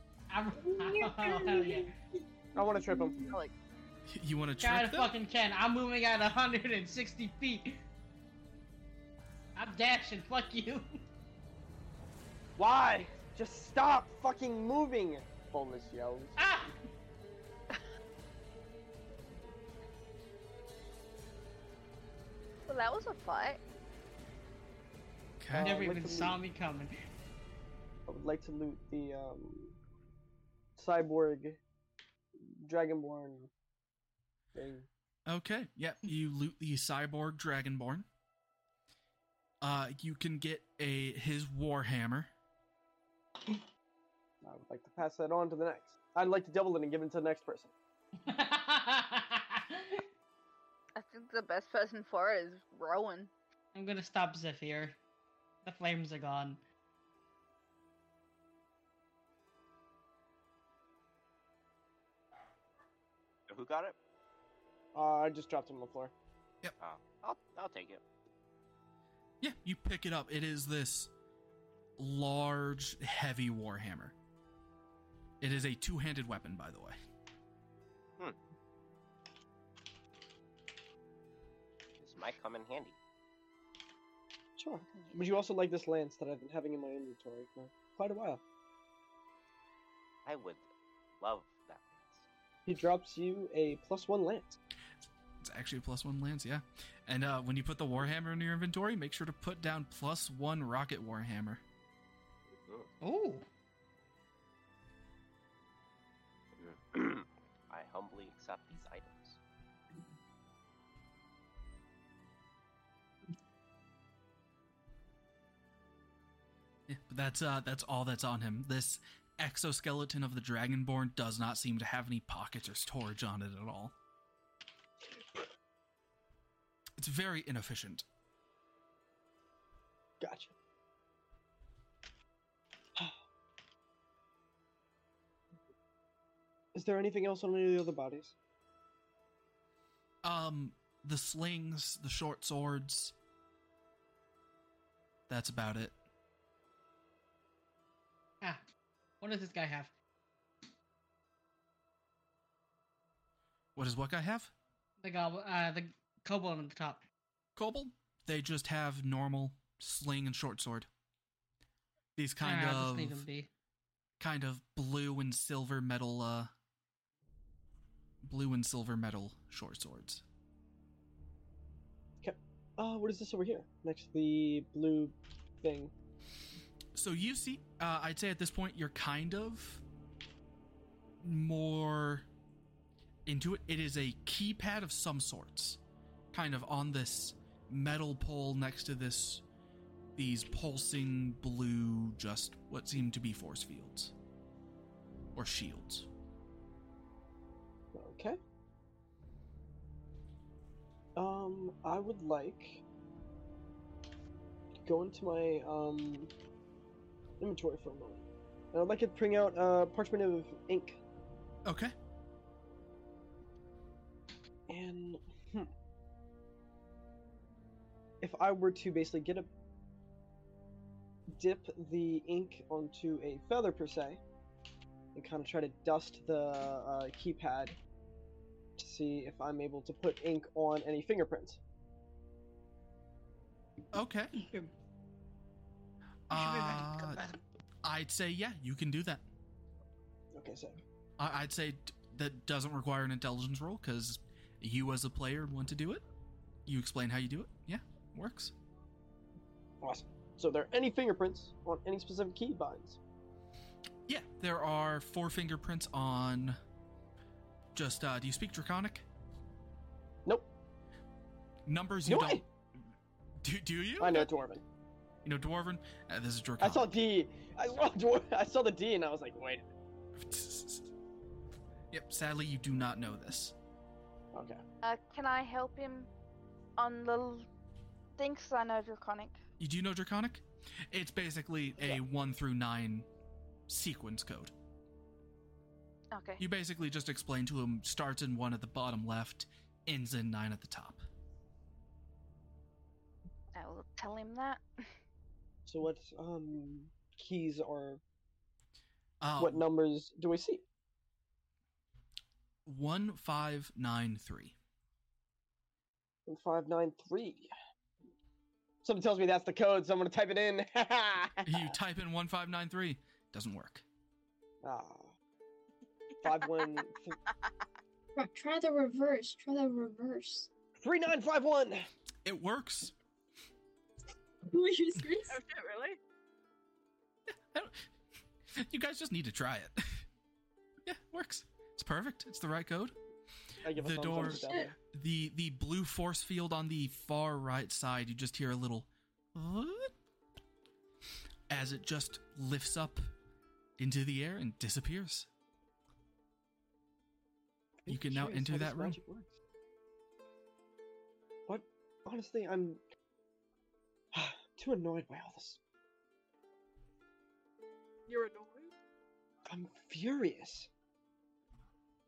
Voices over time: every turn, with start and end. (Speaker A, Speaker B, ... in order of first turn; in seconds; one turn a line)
Speaker A: 0.3-1.9
Speaker B: 0.5-1.9
Speaker C: 2.5-3.4
Speaker B: 2.6-3.4
Speaker D: 4.1-5.1
Speaker A: 4.6-7.8
Speaker A: 9.6-11.0
Speaker C: 12.6-16.4
Speaker A: 16.4-16.8
Speaker E: 22.7-23.6
Speaker D: 25.4-25.8
Speaker C: 25.5-26.4
Speaker A: 25.6-26.9
Speaker C: 28.1-29.8
Speaker C: 30.8-31.6
Speaker C: 32.6-33.5
Speaker C: 34.5-34.9
Speaker D: 35.3-38.1
Speaker D: 39.6-42.3
Speaker C: 44.4-47.7
Speaker A: 48.2-50.0
Speaker E: 51.0-53.3
Speaker A: 53.7-55.0
Speaker A: 55.6-56.6
Speaker F: 63.5-64.0
Speaker C: 64.9-66.1
Speaker F: 66.8-68.0
Speaker D: 69.4-71.1
Speaker D: 72.0-74.2
Speaker D: 75.4-77.0
Speaker F: 82.0-83.0
Speaker C: 84.6-88.4
Speaker E: 84.9-85.4
Speaker F: 90.3-90.7
Speaker F: 91.2-92.3
Speaker C: 92.7-94.6
Speaker D: 95.4-101.6
Speaker A: 103.0-103.5
Speaker F: 106.6-109.4
Speaker D: 116.9-123.9
Speaker D: 127.0-128.1
Speaker C: 130.2-130.5
Speaker C: 136.8-138.3
Speaker D: 140.2-143.2
Speaker D: 145.3-145.9
Speaker A: 149.2-149.9
Speaker D: 153.8-154.5
Speaker A: 155.0-157.1
Speaker D: 157.6-160.9
Speaker D: 162.2-163.2
Speaker A: 162.4-163.5
Speaker D: 164.2-166.5
Speaker D: 168.2-170.2
Speaker C: 172.2-175.9
Speaker D: 176.9-179.8
Speaker D: 181.2-182.3
Speaker D: 183.3-185.8
Speaker D: 186.3-189.4
Speaker D: 190.2-194.1
Speaker D: 195.3-196.1
Speaker C: 197.9-198.4
Speaker C: 201.2-202.8
Speaker C: 204.8-206.3
Speaker C: 207.4-211.0
Speaker D: 211.7-211.9
Speaker C: 214.7-215.7
Speaker C: 218.2-219.5
Speaker C: 221.4-224.2
Speaker C: 225.2-227.8
Speaker C: 228.8-231.6
Speaker D: 233.9-234.4
Speaker A: 234.4-234.7
Speaker D: 236.3-237.2
Speaker A: 236.3-237.4
Speaker D: 237.8-239.2
Speaker C: 240.3-240.8
Speaker D: 241.2-246.0
Speaker D: 246.7-248.5
Speaker C: 249.8-253.0
Speaker D: 254.1-256.6
Speaker D: 257.8-259.1
Speaker D: 261.7-262.4
Speaker C: 262.1-262.4
Speaker D: 263.4-264.3
Speaker C: 264.0-264.6
Speaker D: 265.2-266.9
Speaker C: 266.6-269.6
Speaker D: 270.2-270.9
Speaker D: 271.9-273.5
Speaker C: 274.3-274.6
Speaker E: 274.8-276.1
Speaker E: 276.8-277.5
Speaker E: 278.2-279.4
Speaker D: 279.6-283.1
Speaker D: 283.7-284.5
Speaker E: 286.1-286.4
Speaker D: 286.4-291.0
Speaker E: 293.6-294.6
Speaker C: 295.7-298.0
Speaker D: 299.2-299.6
Speaker C: 299.4-300.6
Speaker D: 302.7-304.6
Speaker C: 306.3-307.5
Speaker C: 308.8-311.6
Speaker D: 311.4-313.9
Speaker C: 314.6-315.1
Speaker C: 316.2-317.2
Speaker G: 316.3-316.8
Speaker B: 318.2-320.5
Speaker C: 320.8-321.9
Speaker D: 322.2-322.9
Speaker B: 324.5-325.4
Speaker G: 325.3-326.0
Speaker D: 327.3-327.9
Speaker D: 328.5-330.1
Speaker D: 330.9-332.9
Speaker C: 333.6-334.7
Speaker D: 333.8-339.9
Speaker B: 334.2-334.7
Speaker D: 341.5-343.1
Speaker D: 343.8-345.3
Speaker C: 347.8-349.3
Speaker D: 347.9-349.0
Speaker C: 351.5-352.8
Speaker C: 354.1-355.6
Speaker G: 358.1-358.7
Speaker C: 359.5-360.7